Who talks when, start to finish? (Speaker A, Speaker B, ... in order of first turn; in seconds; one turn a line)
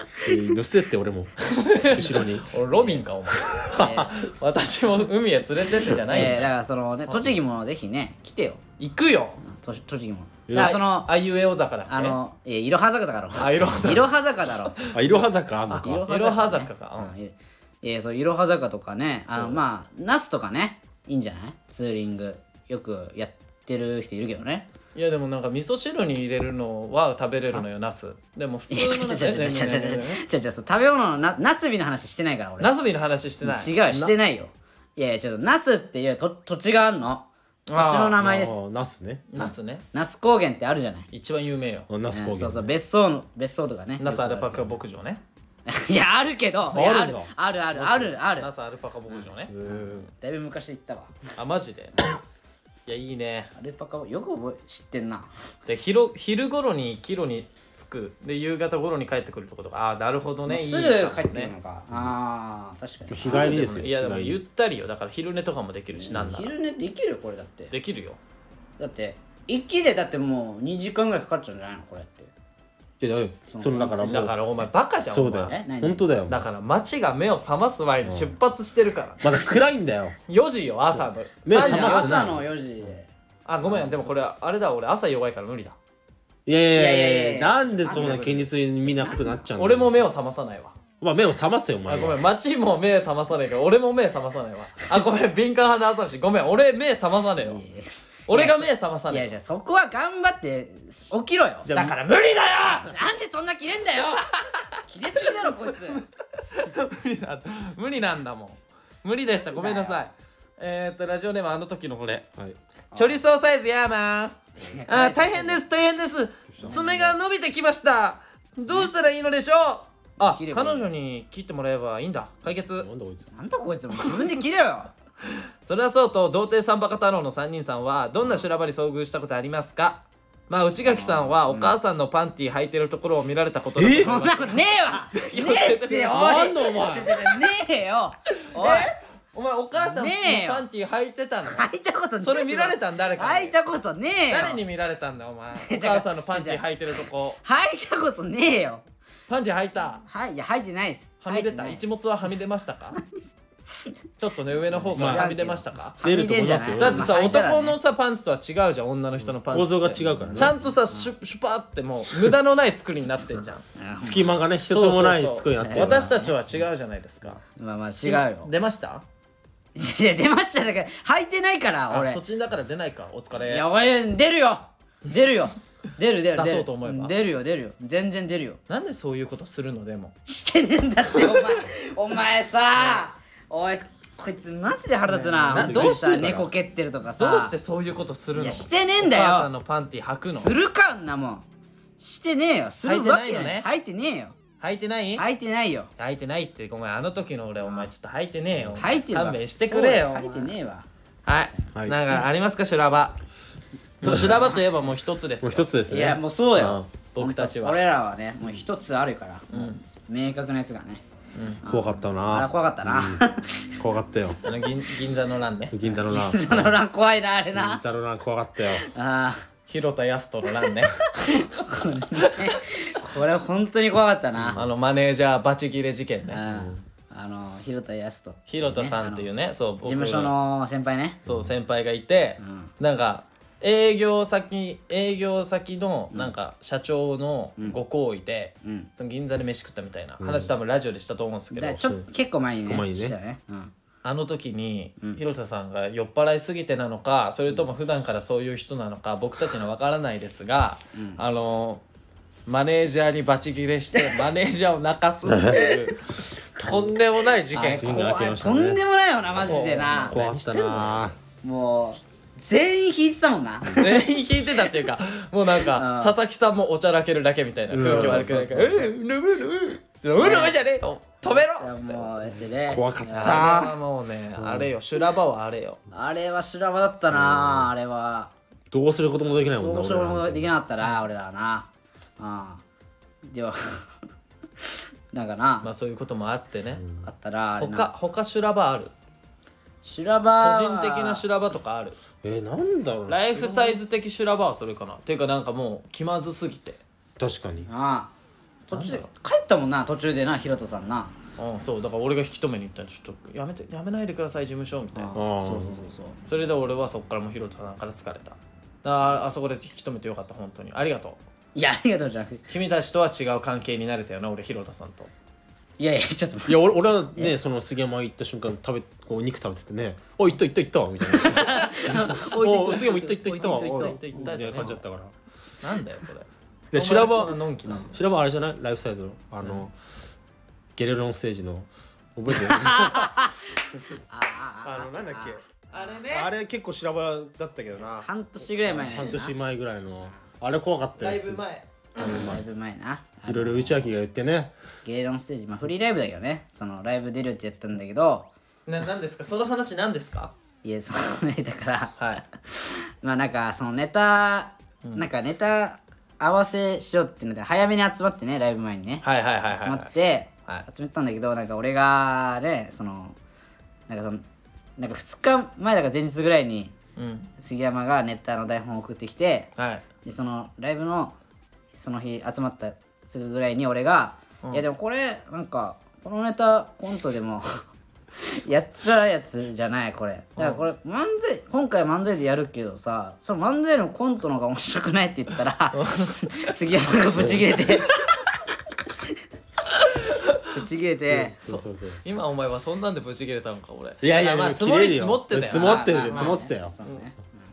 Speaker A: 0.2-2.5
Speaker B: 1.4-6.4
Speaker A: 3.6-4.1
Speaker C: 3.8-4.1
Speaker C: 6.1-8.6
Speaker B: 8.8-9.4
Speaker C: 9.4-11.1
Speaker A: 10.5-10.8
Speaker B: 10.6-12.2
Speaker C: 11.9-14.8
Speaker B: 13.4-14.1
Speaker B: 14.8-15.1
Speaker A: 14.9-16.1
Speaker B: 15.7-17.1
Speaker C: 15.8-24.7
Speaker A: 19.3-19.6
Speaker B: 24.9-30.2
Speaker C: 28.7-32.8
Speaker B: 32.6-33.7
Speaker C: 33.4-38.6
Speaker A: 33.9-34.1
Speaker B: 37.7-38.2
Speaker A: 38.2-39.4
Speaker B: 39.3-39.9
Speaker C: 39.4-41.1
Speaker B: 41.1-41.9
Speaker A: 41.9-42.7
Speaker C: 42.1-44.7
Speaker B: 44.0-45.2
Speaker C: 45.7-48.5
Speaker A: 46.7-48.1
Speaker B: 48.3-49.5
Speaker C: 49.1-51.1
Speaker A: 49.5-50.1
Speaker B: 51.4-52.1
Speaker B: 52.9-53.5
Speaker C: 53.6-55.3
Speaker B: 55.7-61.5
Speaker C: 60.5-63.6
Speaker A: 63.1-64.4
Speaker B: 63.2-66.5
Speaker C: 66.0-67.7
Speaker B: 67.7-68.2
Speaker C: 68.8-72.3
Speaker A: 73.0-74.3
Speaker C: 73.5-74.2
Speaker B: 74.0-75.6
Speaker A: 75.1-76.5
Speaker C: 75.5-76.0
Speaker B: 76.3-79.4
Speaker A: 78.0-78.3
Speaker A: 79.2-80.2
Speaker B: 80.3-82.3
Speaker A: 80.9-82.5
Speaker C: 81.5-83.1
Speaker B: 83.5-85.8
Speaker A: 86.5-90.1
Speaker C: 86.7-89.5
Speaker B: 89.6-90.8
Speaker A: 91.0-92.2
Speaker B: 91.9-97.6
Speaker C: 97.4-101.9
Speaker B: 98.3-99.3
Speaker A: 101.6-102.0
Speaker B: 101.7-102.9
Speaker C: 102.7-104.3
Speaker B: 104.4-112.3
Speaker C: 104.9-106.0
Speaker C: 109.4-110.0
Speaker C: 112.9-113.2
Speaker B: 112.9-122.9
Speaker C: 114.6-115.6
Speaker A: 116.5-116.8
Speaker C: 116.6-117.1
Speaker C: 118.6-118.9
Speaker C: 120.2-120.9
Speaker A: 122.8-123.3
Speaker C: 123.3-124.9
Speaker B: 125.6-136.5
Speaker C: 130.8-131.7
Speaker A: 133.8-134.2
Speaker C: 133.9-138.9
Speaker A: 136.1-137.1
Speaker B: 138.5-141.7
Speaker C: 139.8-140.7
Speaker C: 141.5-144.6
Speaker B: 142.2-143.6
Speaker B: 144.3-147.4
Speaker C: 145.6-146.6
Speaker C: 147.4-148.9
Speaker B: 149.3-150.0
Speaker C: 150.0-151.8
Speaker B: 151.2-153.0
Speaker B: 154.2-156.0
Speaker C: 154.7-157.8
Speaker A: 154.9-155.3
Speaker A: 156.0-157.2
Speaker B: 156.8-163.6
Speaker A: 159.4-160.6
Speaker C: 160.1-161.1
Speaker C: 163.8-164.3
Speaker A: 164.0-166.2
Speaker B: 164.7-167.4
Speaker C: 165.6-166.3
Speaker C: 167.6-168.5
Speaker B: 167.9-169.0
Speaker C: 169.8-172.2
Speaker B: 171.9-173.7
Speaker C: 173.4-178.6
Speaker B: 176.3-177.1
Speaker B: 178.7-180.1
Speaker C: 180.3-187.5
Speaker B: 185.1-186.3
Speaker A: 185.5-186.5
Speaker B: 187.2-190.6
Speaker C: 188.4-189.5
Speaker C: 190.3-191.4
Speaker C: 192.0-194.4
Speaker B: 192.8-193.7
Speaker B: 194.6-195.2
Speaker C: 195.2-195.9
Speaker B: 196.0-200.5
Speaker C: 197.6-197.9
Speaker C: 198.8-200.9
Speaker B: 201.3-203.2
Speaker B: 204.0-205.7
Speaker A: 204.0-204.5
Speaker C: 204.1-204.6
Speaker A: 205.4-206.9
Speaker C: 205.9-211.0
Speaker B: 207.1-207.8
Speaker B: 209.5-209.8
Speaker B: 211.4-211.6
Speaker C: 211.6-213.8
Speaker A: 211.7-213.2
Speaker A: 213.8-214.4
Speaker B: 214.4-215.8
Speaker A: 215.7-216.8
Speaker C: 216.1-217.8
Speaker A: 217.5-218.9
Speaker C: 218.8-219.4
Speaker B: 219.7-221.4
Speaker C: 221.1-224.6
Speaker B: 222.1-222.6
Speaker A: 224.3-224.7
Speaker B: 224.6-226.4
Speaker C: 226.3-229.3
Speaker A: 226.5-226.8
Speaker B: 228.5-230.3
Speaker C: 229.8-231.2
Speaker A: 231.2-231.5
Speaker B: 231.2-241.8
Speaker C: 232.4-232.7
Speaker C: 238.6-238.9
Speaker A: 240.2-240.5
Speaker C: 241.5-243.7
Speaker A: 241.7-242.0
Speaker A: 242.6-243.2
Speaker B: 244.0-251.8
Speaker C: 250.9-251.2
Speaker B: 252.5-257.9
Speaker C: 257.5-260.2
Speaker A: 257.6-258.8
Speaker A: 259.3-261.2
Speaker B: 259.5-261.0
Speaker C: 261.4-263.9
Speaker B: 263.8-272.1
Speaker C: 265.7-266.2
Speaker A: 267.7-268.4
Speaker C: 267.8-268.9
Speaker C: 270.2-270.6
Speaker C: 271.6-273.7
Speaker A: 272.7-273.7
Speaker B: 273.1-275.8
Speaker A: 274.4-274.7
Speaker C: 275.9-278.3
Speaker A: 277.1-277.7
Speaker A: 278.7-280.6
Speaker C: 279.6-281.7
Speaker C: 282.2-282.6
Speaker C: 283.3-283.9
Speaker C: 284.6-285.7
Speaker B: 285.6-286.8
Speaker C: 287.0-287.9
Speaker B: 287.6-288.9
Speaker C: 289.8-291.2
Speaker B: 290.4-292.0
Speaker A: 292.2-293.8
Speaker B: 293.1-296.8
Speaker A: 297.2-297.7
Speaker C: 297.7-298.1
Speaker C: 298.7-301.1
Speaker B: 298.7-299.1
Speaker B: 301.4-305.2
Speaker C: 304.9-306.2
Speaker A: 305.1-305.8
Speaker B: 306.2-311.2
Speaker C: 311.6-312.4
Speaker B: 312.5-315.1
Speaker C: 315.8-317.4
Speaker A: 316.5-325.1
Speaker C: 321.1-324.2
Speaker B: 321.4-321.9
Speaker B: 323.4-324.8
Speaker B: 325.6-327.9
Speaker A: 326.7-327.4
Speaker A: 327.9-329.8
Speaker A: 330.8-333.3
Speaker C: 332.4-335.4
Speaker A: 334.6-335.4
Speaker B: 335.7-336.3
Speaker A: 336.1-338.1
Speaker C: 338.0-339.3
Speaker A: 338.6-341.4
Speaker B: 341.0-342.3
Speaker A: 341.9-342.4
Speaker C: 342.0-343.9
Speaker A: 343.3-344.5
Speaker C: 344.9-348.3
Speaker B: 348.7-350.3
Speaker C: 350.6-363.2
Speaker B: 359.0-359.9
Speaker C: 363.9-364.2
Speaker C: 364.8-366.7
Speaker B: 366.9-367.3
Speaker C: 367.4-369.5
Speaker B: 369.6-369.9
Speaker C: 370.1-371.2
Speaker C: 371.8-377.6
Speaker C: 378.2-388.0
Speaker B: 380.4-380.6
Speaker B: 385.7-386.5
Speaker A: 387.2-387.4
Speaker B: 387.9-388.2
Speaker B: 389.7-390.5
Speaker C: 390.5-391.4
Speaker A: 391.0-392.1
Speaker B: 391.4-397.0
Speaker A: 394.0-396.7
Speaker C: 395.4-397.4